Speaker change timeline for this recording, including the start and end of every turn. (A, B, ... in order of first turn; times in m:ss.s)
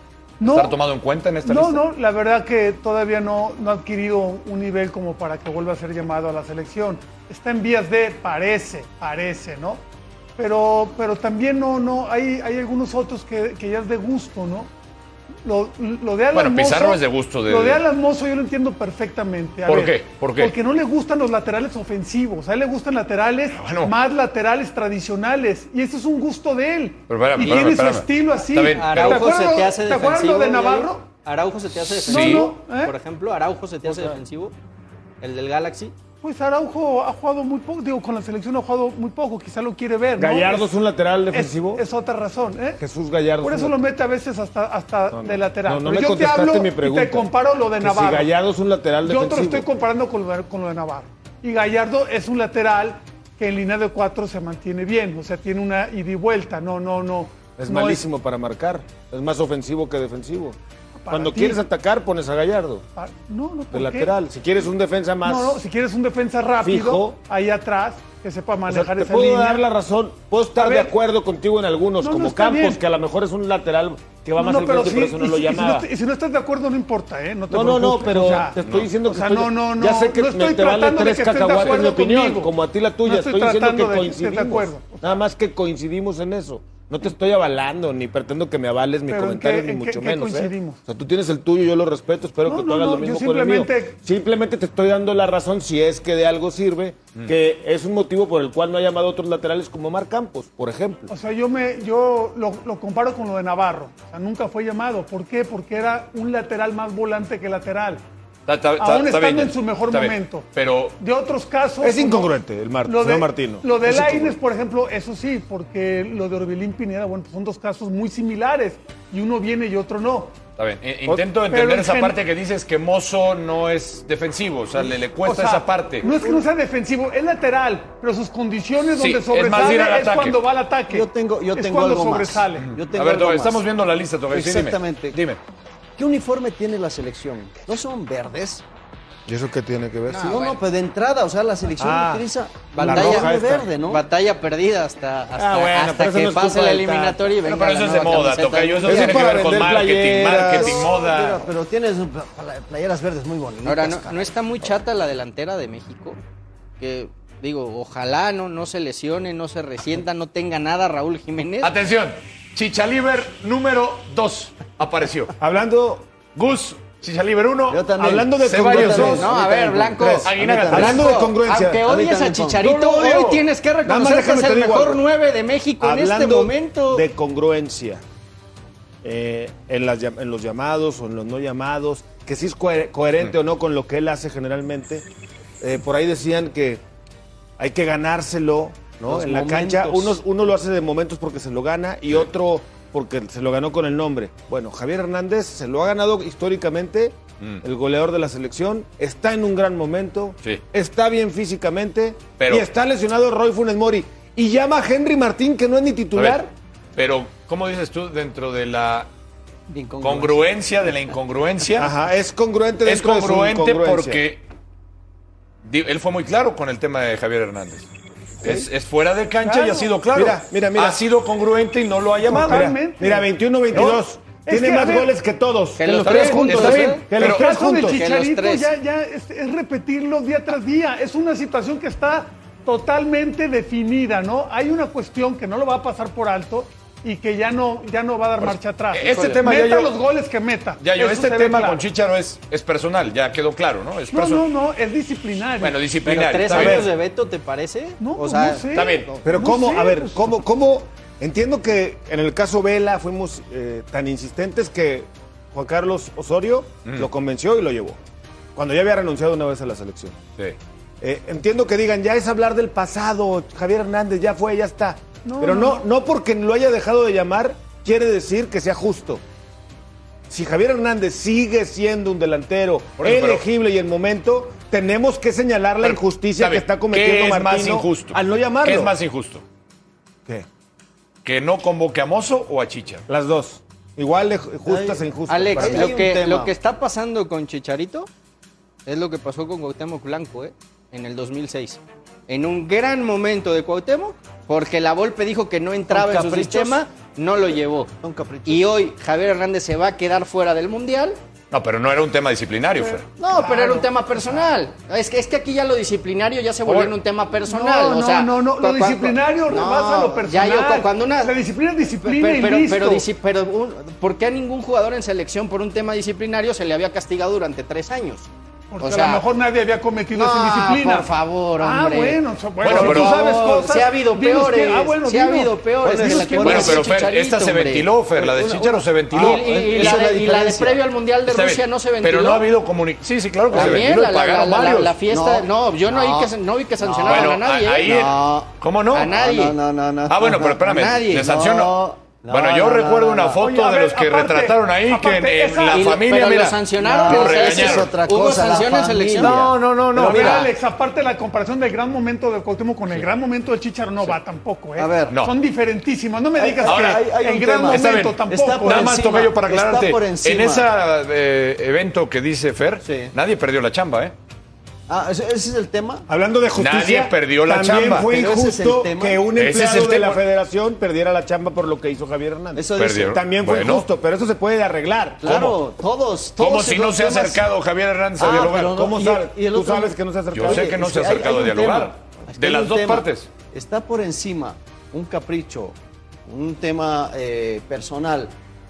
0:00.4-0:00.8 A
0:00.4-0:01.8 B
0:01.4-0:09.8 A
0:10.4-0:14.7 A
0:15.4-0:31.1 A
0:16.3-0:17.8 B
0:19.6-0:20.5 B
0:23.6-0:23.9 B
0:27.1-0:29.3 B
0:28.7-0:34.5 C
0:32.0-0:32.9 A
0:32.0-0:32.5 B
0:35.2-0:35.9 C
0:36.2-0:40.7 A
0:40.2-0:41.8 D
0:41.3-0:42.8 A
0:42.8-0:43.8 D
0:43.4-0:48.3 A
0:45.1-0:49.6 D
0:49.0-0:58.0 A
0:57.6-1:00.6 D
1:00.9-1:01.6 A
1:01.1-1:02.8 D
1:03.0-1:04.1 A
1:03.7-1:05.6 D
1:05.2-1:09.6 A
1:06.6-1:07.2 D
1:08.7-1:15.9 D
1:10.6-1:10.9 A
1:12.0-1:12.8 A
1:14.4-1:22.5 A
1:17.5-1:41.1 D
1:18.6-1:18.9 B
1:23.0-1:25.2 A
1:29.1-1:30.8 A
1:32.4-1:33.9 A
1:41.1-1:48.0 A
1:48.5-1:51.0 B
1:48.8-1:50.5 A
1:51.0-1:52.3 A
1:51.8-1:54.4 D
1:52.8-2:00.3 A
2:00.6-2:06.1 B
2:01.5-2:02.2 A
2:05.1-2:12.7 A
2:08.9-2:10.4 B
2:09.5-2:09.8 E
2:10.9-2:13.6 E
2:12.6-2:15.4 B
2:14.3-2:15.2 E
2:16.0-2:18.6 E
2:19.2-2:20.3 D
2:20.1-2:20.6 C
2:20.2-2:24.0 E
2:21.8-2:22.2 D
2:22.7-2:29.2 C
2:22.8-2:23.7 D
2:25.4-2:27.3 D
2:27.4-2:31.5 B
2:28.8-2:30.9 D
2:30.2-2:34.7 E
2:33.6-2:36.2 C
2:36.8-2:41.7 C
2:41.6-2:45.3 B
2:45.4-2:46.0 D
2:46.4-2:49.2 B
2:47.7-2:51.1 E
2:48.0-2:49.3 D
2:49.2-2:57.0 C
2:50.0-2:51.8 D
2:50.2-2:51.1 B
2:51.8-2:52.6 E
2:52.6-2:53.4 B
2:53.8-2:55.0 D
2:55.8-2:58.0 D
2:59.0-3:05.0 D
3:05.6-3:06.8 D
3:07.6-3:26.5 D
3:09.0-3:10.2 E
3:22.4-3:22.6 B
3:26.1-3:26.4 B
3:27.0-3:29.1 B
3:29.7-3:30.9 E
3:30.0-3:31.9 B
3:31.8-3:34.2 D
3:32.8-3:34.4 B
3:35.6-3:37.9 B
3:38.4-3:42.7 B
3:39.4-3:39.9 A
3:40.1-3:41.0 D
3:42.2-3:43.2 A
3:42.4-3:48.0 D
3:43.7-3:44.0 B
3:44.4-3:45.1 A
3:45.8-3:47.0 C
3:46.0-3:47.4 B
3:46.6-4:01.9 A
3:47.8-3:48.7 C
3:58.4-3:59.9 B
3:59.0-3:59.4 C
4:00.8-4:04.5 B
4:04.1-4:05.8 A
4:05.6-4:06.9 B
4:06.0-4:08.6 C
4:06.5-4:06.9 D
4:08.0-4:10.2 A
4:08.7-4:09.1 B
4:09.2-4:18.0 D
4:18.5-4:20.2 D
4:21.0-4:29.2 D
4:25.2-4:25.8 A
4:30.3-4:38.9 D
4:33.0-4:33.4 B
4:35.8-4:39.4 B
4:41.2-4:43.0 B
4:43.1-4:46.0 D
4:44.6-4:45.0 E
4:45.3-4:48.1 C
4:45.5-4:46.5 E
4:48.8-4:57.9 C
4:55.9-4:56.8 E
4:58.0-4:58.8 E
4:58.4-5:01.2 C
5:01.5-5:03.0 B
5:02.8-5:04.4 A
5:03.2-5:11.3 C
5:06.6-5:06.9 B
5:07.5-5:13.0 A
5:09.5-5:10.1 E
5:12.0-5:18.3 C
5:18.7-5:26.7 A
5:18.8-5:19.2 C
5:20.1-5:27.9 C
5:22.6-5:23.2 B
5:25.8-5:26.9 E
5:26.4-5:30.0 B
5:28.1-5:30.8 E
5:29.1-5:32.5 C
5:31.3-5:34.9 B
5:33.5-5:33.9 E
5:33.5-5:37.9 C
5:35.1-5:38.5 E
5:37.0-5:39.1 B
5:38.9-5:39.6 C
5:39.1-5:43.4 E
5:40.1-5:47.9 B
5:40.6-5:41.3 C
5:43.4-5:45.9 A
5:45.7-5:49.4 C
5:46.8-5:50.5 E
5:49.2-5:50.4 B
5:50.0-5:59.0 A
5:50.1-5:50.5 C
5:54.8-5:55.2 E
5:56.4-6:00.7 E
5:56.6-5:57.0 B
5:57.7-6:04.1 B
6:02.8-6:03.1 E
6:04.9-6:06.1 E
6:06.1-6:15.3 D
6:06.6-6:08.1 B
6:08.0-6:09.2 E
6:09.4-6:10.2 B
6:12.5-6:13.2 E
6:12.8-6:13.8 B
6:15.2-6:17.4 E
6:15.2-6:15.6 B
6:16.4-6:18.7 B
6:18.2-6:28.3 E
6:18.5-6:20.7 D
6:20.3-6:23.3 B